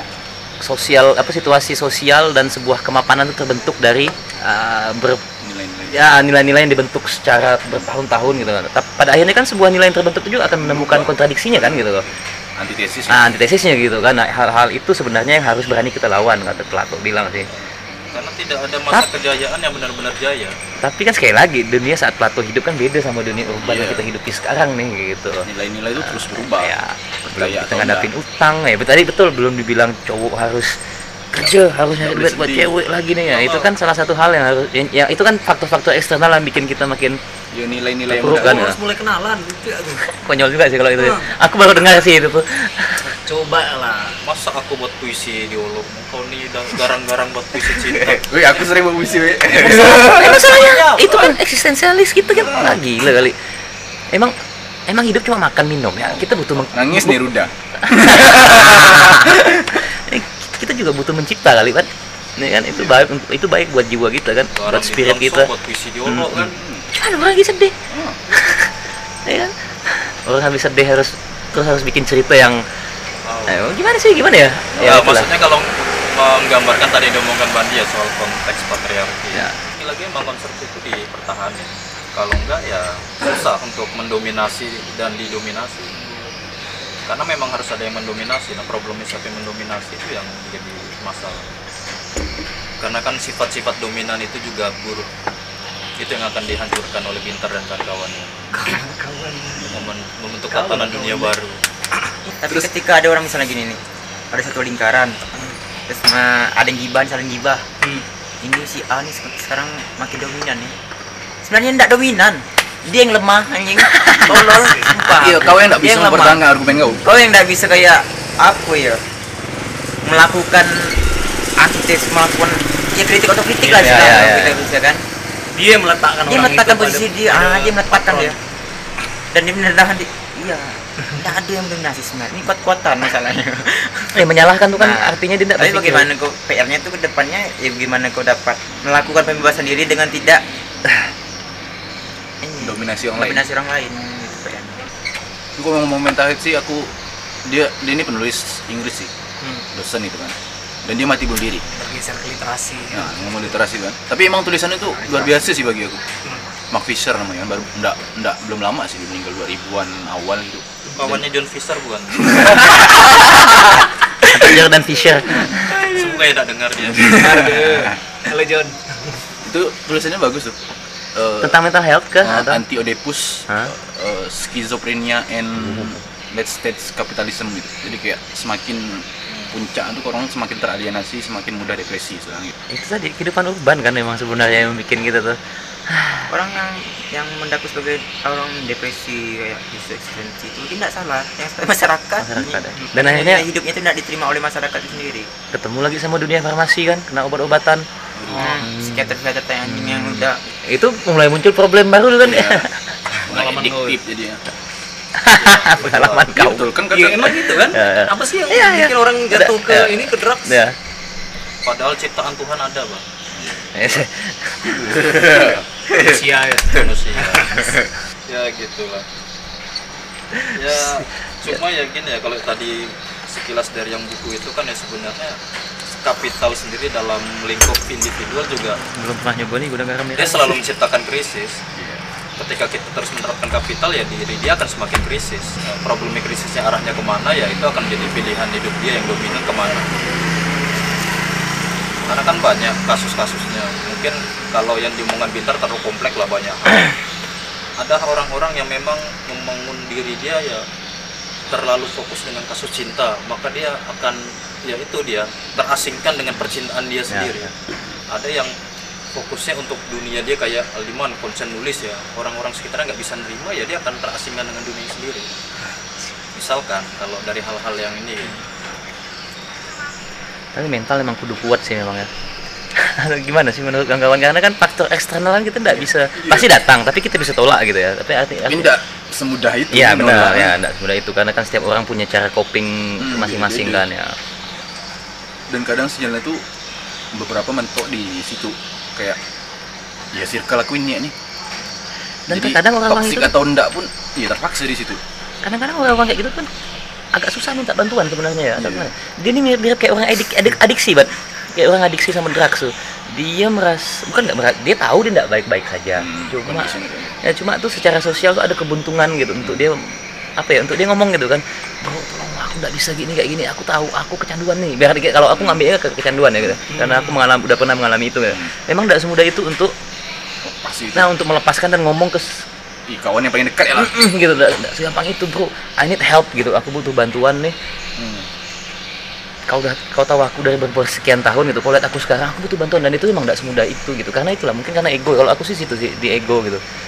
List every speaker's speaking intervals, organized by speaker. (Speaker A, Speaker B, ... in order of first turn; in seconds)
Speaker A: 0.6-5.2, 5.9-12.0, 13.1-17.5, 20.8-30.8, 31.3-37.2, 38.1-38.8, 40.1-43.1, 49.5-53.4, 54.9-57.2, 57.8-59.3, 59.9-65.5, 66.1-67.8, 68.3-68.7, 69.2-72.6, 73.5-75.3, 113.9-114.3, 123.6-124.7, 134.2-136.1, 164.3-165.7, 171.4-172.6, 175.6-176.0, 182.7-186.3, 192.2-193.4, 195.5-197.8, 198.6-199.1, 199.7-202.8, 205.2-206.7, 207.7-210.8, 213.8-214.8, 220.3-221.6, 228.9-230.6, 257.1-257.5, 270.6-272.1, 272.8-278.7, 279.7-284.1, 292.3-293.4, 295.4-296.5, 297.1-309.8, 310.4-319.7, 320.9-322.4, 323.8-327.6, 329.5-336.6
Speaker B: 5.4-6.0, 10.6-13.4, 23.6-24.1, 25.4-28.1, 32.0-32.7, 37.5-38.7, 48.0-50.8, 52.2-52.8, 56.6-59.7, 66.4-66.9, 67.9-68.2, 115.2-117.1, 142.6-143.5, 145.6-146.9, 147.4-149.1, 149.7-151.6, 152.9-156.0, 156.7-161.2, 162.2-163.7, 167.0-167.9, 169.4-170.6, 171.2-171.6, 172.2-182.5, 198.2-198.6, 202.2-204.4, 206.3-207.6, 213.3-214.1, 214.7-215.7, 231.8-232.0, 275.8-276.5, 278.5-280.6, 283.0-283.8, 285.5-286.4, 287.1-289.2, 290.1-291.1, 292.3-295.0, 298.6-298.9, 306.0-307.2, 315.3-315.6, 320.4-321.1, 322.9-323.9, 328.0-328.3
Speaker C: 18.1-20.6, 33.3-33.7, 44.2-48.2, 64.5-66.6, 73.2-73.6, 74.8-85.9, 87.1-91.5, 92.8-95.1, 96.0-98.5, 99.6-101.6, 161.0-162.6, 165.8-167.4, 205.4-206.4, 211.7-213.0, 216.7-217.6, 218.3-219.1, 220.6-225.4, 226.0-228.8, 230.2-231.6, 232.4-239.9, 242.1-246.9, 247.8-250.7, 251.5-257.5, 258.1-258.5, 259.1-265.3, 266.4-268.4
Speaker D: 38.3-40.1, 41.0-41.3, 43.3-44.2, 98.5-99.8, 100.5-101.3, 102.0-102.3, 114.2-115.0, 125.5-128.4, 151.7-153.1, 167.0-169.2, 198.4-198.6, 203.3-204.0, 206.9-210.6, 216.0-217.7, 316.7-317.2
Speaker E: 102.4-103.8, 104.3-107.7, 108.4-110.7, 111.4-116.4, 117.0-119.0, 120.0-121.0, 121.6-125.0, 126.3-128.4, 129.3-134.3, 134.8-140.4, 142.4-144.8, 186.3-195.3, 198.3-200.4, 215.9-216.2